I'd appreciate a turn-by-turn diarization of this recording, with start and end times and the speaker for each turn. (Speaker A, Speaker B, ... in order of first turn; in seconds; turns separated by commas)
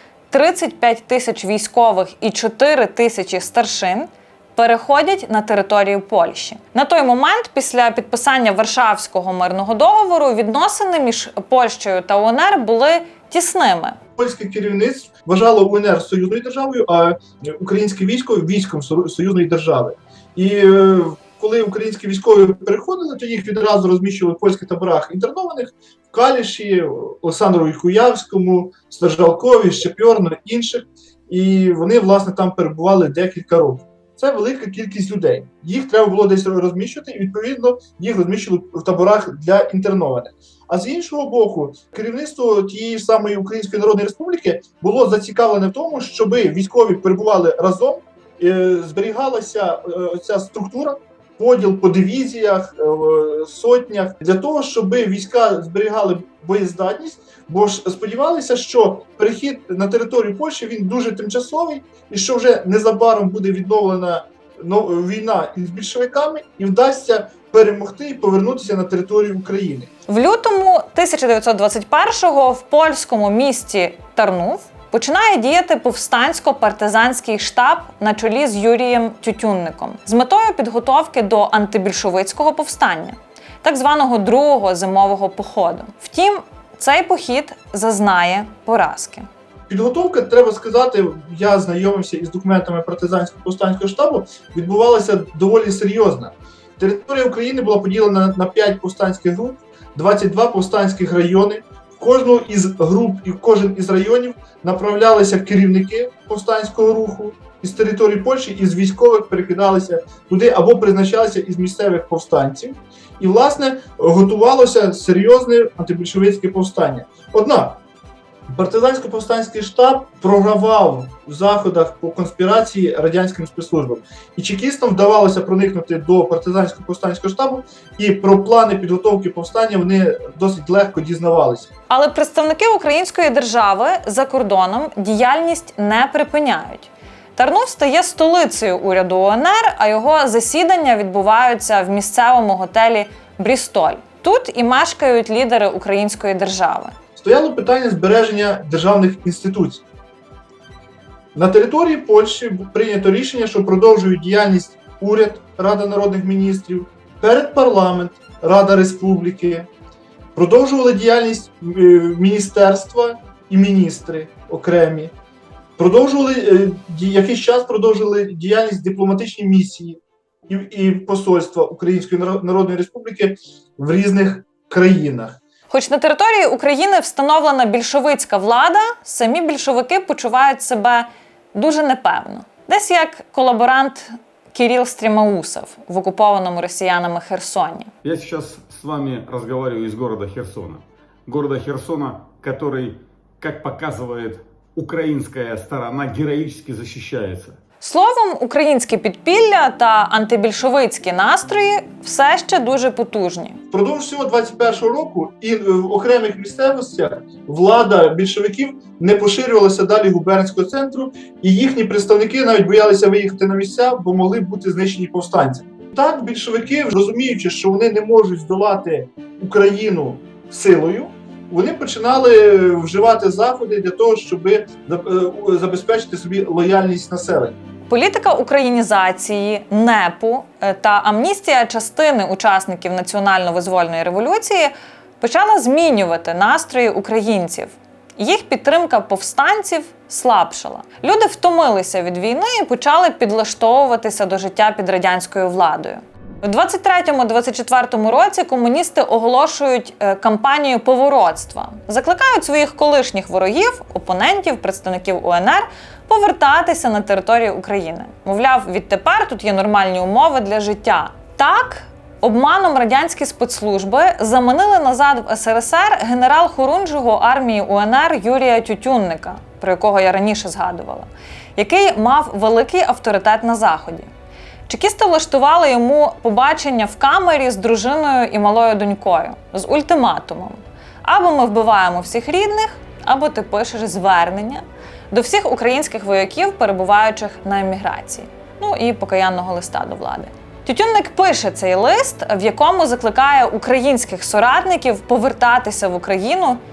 Speaker A: 0.3-14.0, Speaker B: 14.2-69.9, Speaker A: 70.1-89.3, Speaker B: 89.7-117.8, Speaker B: 118.5-131.7, Speaker A: 131.9-146.9, Speaker B: 147.2-149.8, Speaker B: 151.3-159.7, Speaker B: 160.3-165.1, Speaker B: 165.8-175.4, Speaker A: 175.7-187.9, Speaker C: 188.0-197.6, Speaker A: 197.8-203.6, Speaker B: 203.7-227.6, Speaker A: 227.9-274.1, Speaker A: 274.7-296.6